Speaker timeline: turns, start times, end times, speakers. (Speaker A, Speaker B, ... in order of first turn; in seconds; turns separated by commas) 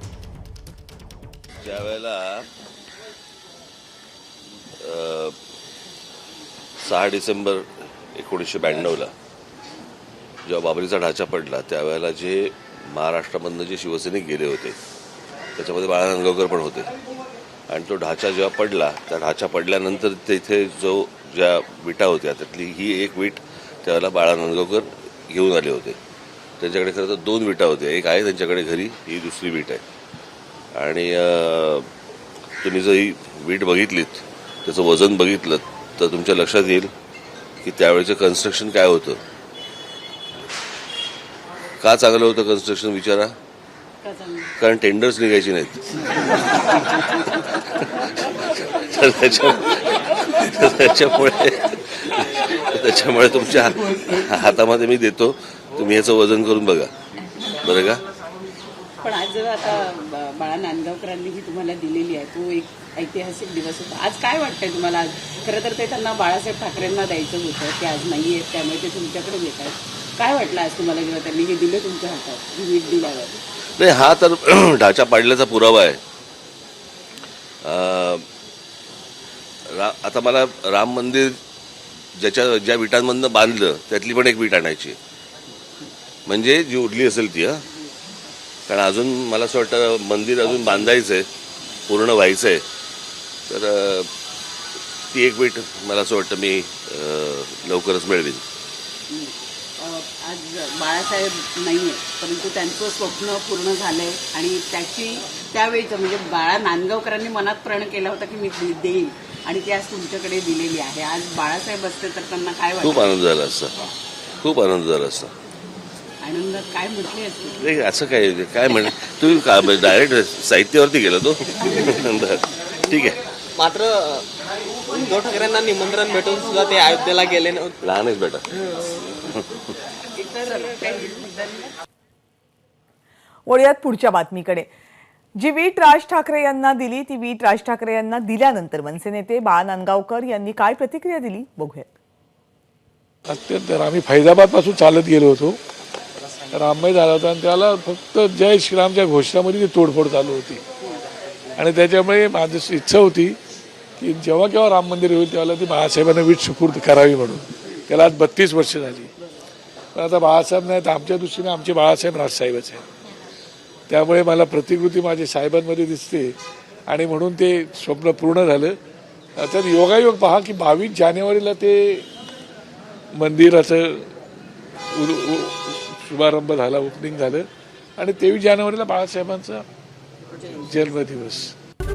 Speaker A: 1.6-2.5, Speaker A: 4.8-5.3, Speaker A: 6.8-9.1, Speaker A: 10.4-14.8, Speaker A: 15.6-16.9, Speaker A: 17.7-26.0, Speaker A: 26.6-29.8, Speaker A: 30.7-31.9, Speaker A: 32.6-36.9, Speaker A: 37.6-39.2, Speaker A: 41.8-43.3, Speaker B: 44.0-44.5, Speaker A: 44.6-56.9, Speaker A: 57.6-58.0, Speaker B: 59.0-73.4, Speaker A: 73.8-76.0, Speaker A: 77.6-78.2, Speaker A: 79.7-81.4, Speaker A: 82.1-85.0, Speaker A: 86.3-87.6, Speaker A: 88.7-91.3, Speaker A: 91.9-92.6, Speaker A: 93.5-94.1, Speaker A: 95.1-98.4, Speaker B: 99.1-113.2, Speaker A: 112.8-113.7, Speaker A: 114.4-115.3, Speaker B: 116.2-117.6, Speaker A: 117.6-123.2, Speaker C: 123.6-124.2, Speaker C: 124.9-127.7, Speaker A: 127.8-128.4, Speaker B: 130.1-131.7, Speaker D: 133.5-134.7, Speaker D: 135.4-141.9, Speaker E: 143.2-145.6, Speaker E: 146.5-150.6, Speaker E: 151.6-153.4, Speaker E: 154.0-159.1, Speaker E: 159.9-162.8, Speaker E: 163.9-166.3, Speaker E: 166.9-168.8, Speaker E: 169.4-172.1, Speaker E: 173.2-174.1, Speaker E: 174.9-179.6, Speaker E: 180.6-181.5